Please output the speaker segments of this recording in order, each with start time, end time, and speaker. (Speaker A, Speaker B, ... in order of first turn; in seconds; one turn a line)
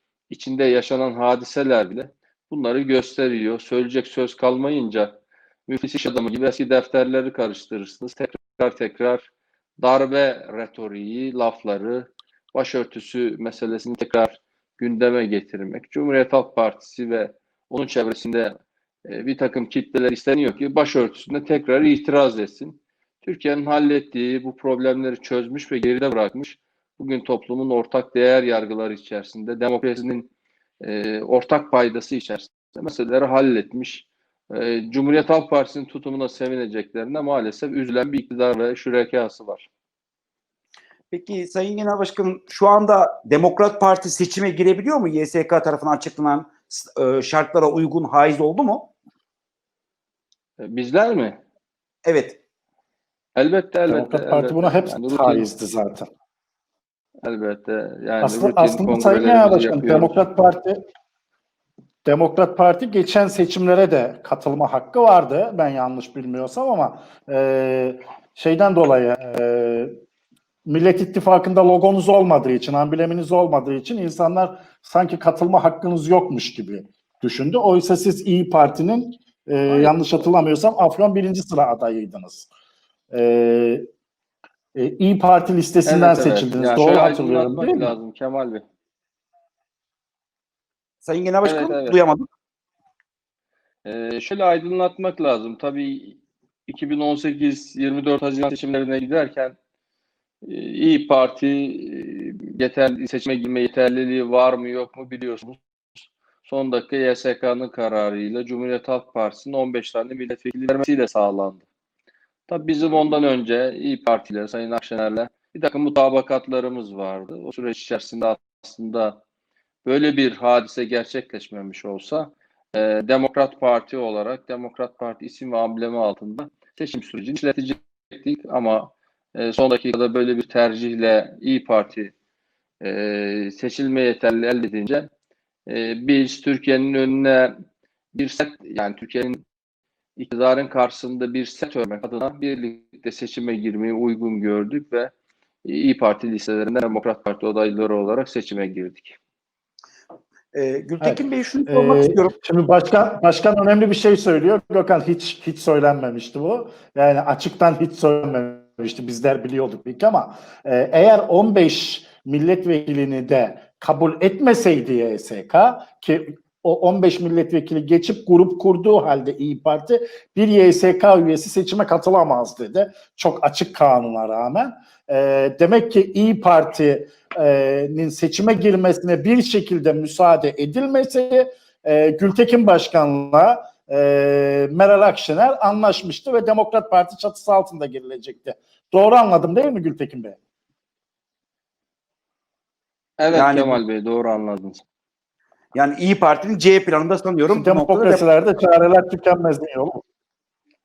Speaker A: 0.3-5.1
Speaker A: 5.7-30.3
Speaker A: 30.8-39.7
Speaker B: 41.1-48.9
Speaker A: 50.6-51.4
Speaker B: 52.0-52.4
Speaker A: 53.4-55.5
Speaker C: 53.9-56.1
Speaker A: 57.2-60.3
Speaker C: 58.2-60.8
Speaker C: 62.0-69.9
Speaker C: 70.7-82.5
Speaker A: 79.7-80.3
Speaker C: 83.1-83.9
Speaker C: 84.8-88.0
Speaker A: 85.8-88.7
Speaker B: 91.0-92.2
Speaker A: 91.4-92.0
Speaker A: 93.8-99.5
Speaker A: 100.4-105.6
Speaker A: 106.4-111.6
Speaker A: 112.5-119.2
Speaker A: 119.8-132.1
Speaker A: 132.8-135.1
Speaker A: 135.7-137.5
Speaker A: 138.1-139.4
Speaker A: 140.2-145.1
Speaker A: 145.6-149.2
Speaker B: 150.5-152.3
Speaker C: 151.0-190.4
Speaker A: 193.2-194.8
Speaker B: 193.3-193.8
Speaker B: 195.8-198.2
Speaker C: 197.5-200.0